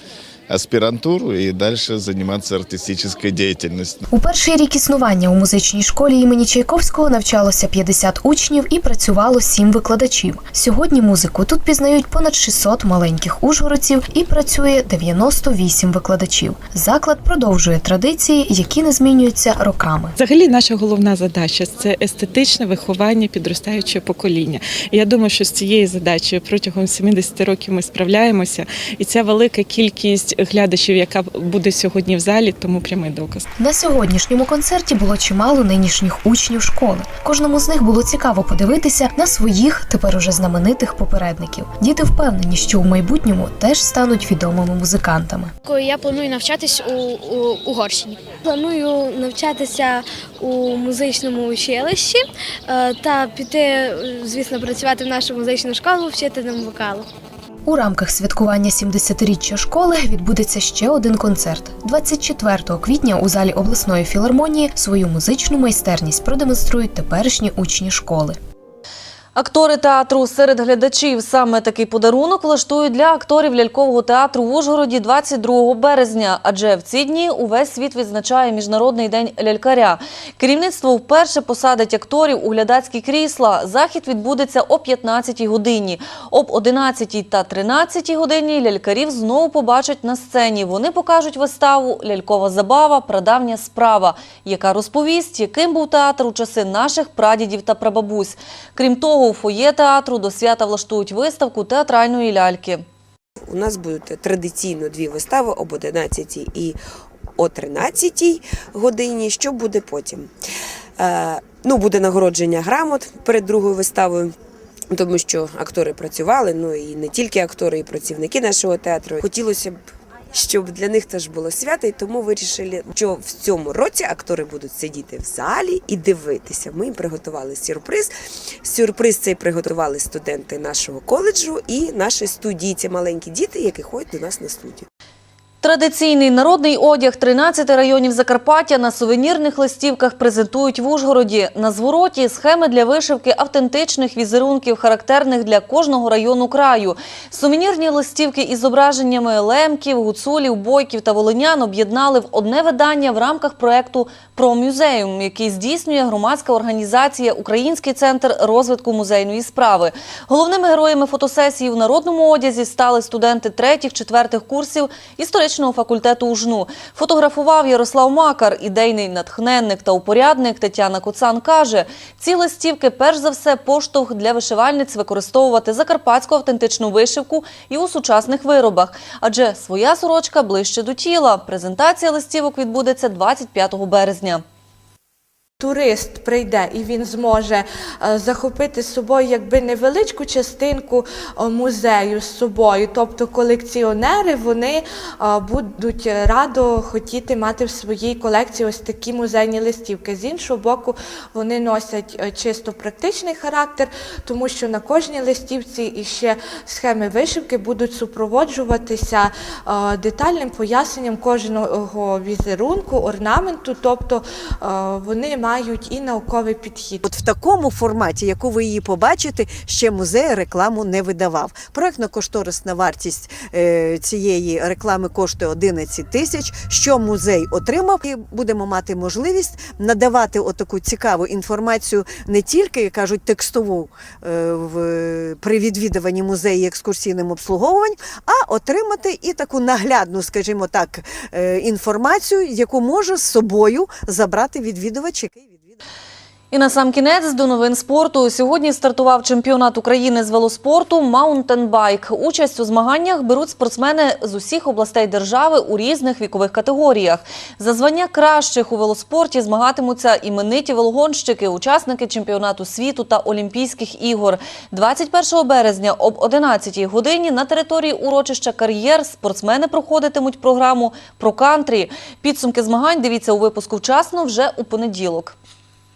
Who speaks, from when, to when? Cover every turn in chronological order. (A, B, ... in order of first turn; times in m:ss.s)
0:00.5-0:04.0 A
0:04.1-0:20.1 B
0:20.2-0:33.4 C
0:33.6-0:45.5 B
0:45.6-0:57.0 D
0:57.6-1:08.4 B
1:09.3-1:42.8 E
1:43.5-1:46.8 F
1:47.4-1:50.3 F
1:51.0-1:54.3 F
1:54.9-1:59.8 F
2:00.3-2:14.8 F
2:15.6-3:04.4 E
3:05.6-3:37.0 G
3:37.0-4:05.8 H
4:06.5-4:35.4 E